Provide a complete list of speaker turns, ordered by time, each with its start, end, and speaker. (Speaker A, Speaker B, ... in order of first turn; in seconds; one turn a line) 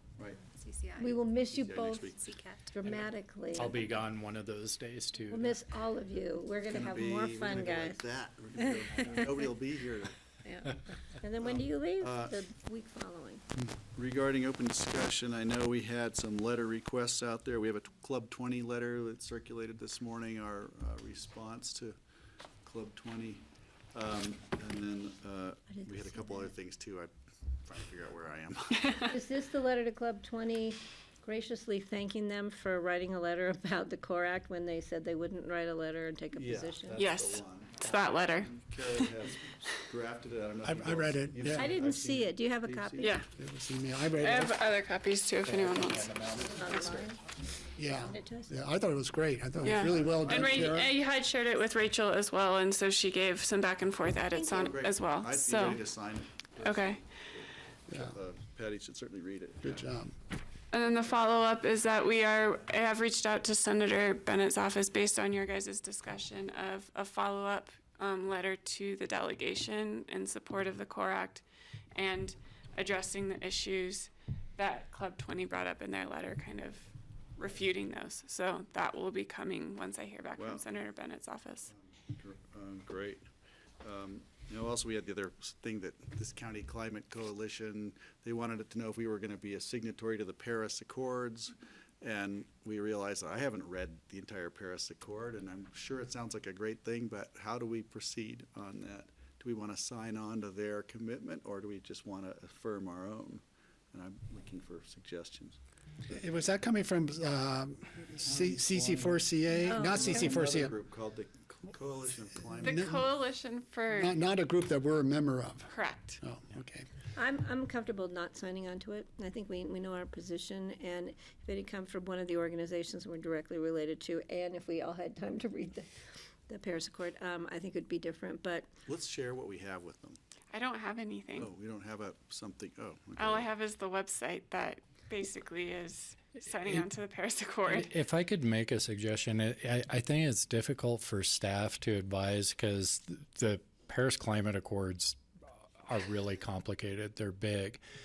Speaker A: 0.4-2.8
Speaker B: 1.0-2.1
Speaker C: 1.6-3.0
Speaker B: 2.7-3.8
Speaker D: 3.5-5.6
Speaker B: 5.3-8.0
Speaker C: 6.7-10.2
Speaker B: 8.6-9.4
Speaker B: 10.4-13.4
Speaker C: 11.4-12.4
Speaker C: 13.8-22.0
Speaker C: 22.6-27.1
Speaker B: 25.7-26.5
Speaker C: 27.6-29.0
Speaker B: 29.0-37.1
Speaker C: 36.4-43.2
Speaker E: 37.0-39.1
Speaker F: 40.6-41.8
Speaker B: 41.5-43.2
Speaker E: 43.0-43.3
Speaker F: 43.3-44.5
Speaker E: 44.2-46.1
Speaker D: 45.4-47.1
Speaker B: 46.5-47.2
Speaker F: 47.8-51.0
Speaker B: 48.0-48.6
Speaker E: 49.6-55.8
Speaker C: 50.1-50.8
Speaker C: 54.4-60.0
Speaker E: 56.6-57.0
Speaker F: 57.9-58.1
Speaker F: 59.6-60.1
Speaker E: 60.7-71.4
Speaker E: 72.0-81.7
Speaker C: 80.4-80.7
Speaker C: 81.7-83.2
Speaker C: 83.8-105.6
Speaker F: 106.1-110.7
Speaker C: 108.1-112.9
Speaker B: 109.7-110.4
Speaker E: 112.6-114.2
Speaker F: 112.6-113.0
Speaker F: 114.0-116.9
Speaker E: 115.7-116.2
Speaker B: 117.2-125.9
Speaker B: 126.5-128.7
Speaker C: 128.9-130.2
Speaker E: 130.5-131.5
Speaker C: 131.4-133.5
Speaker E: 133.2-137.9
Speaker D: 137.7-145.2
Speaker D: 145.8-147.8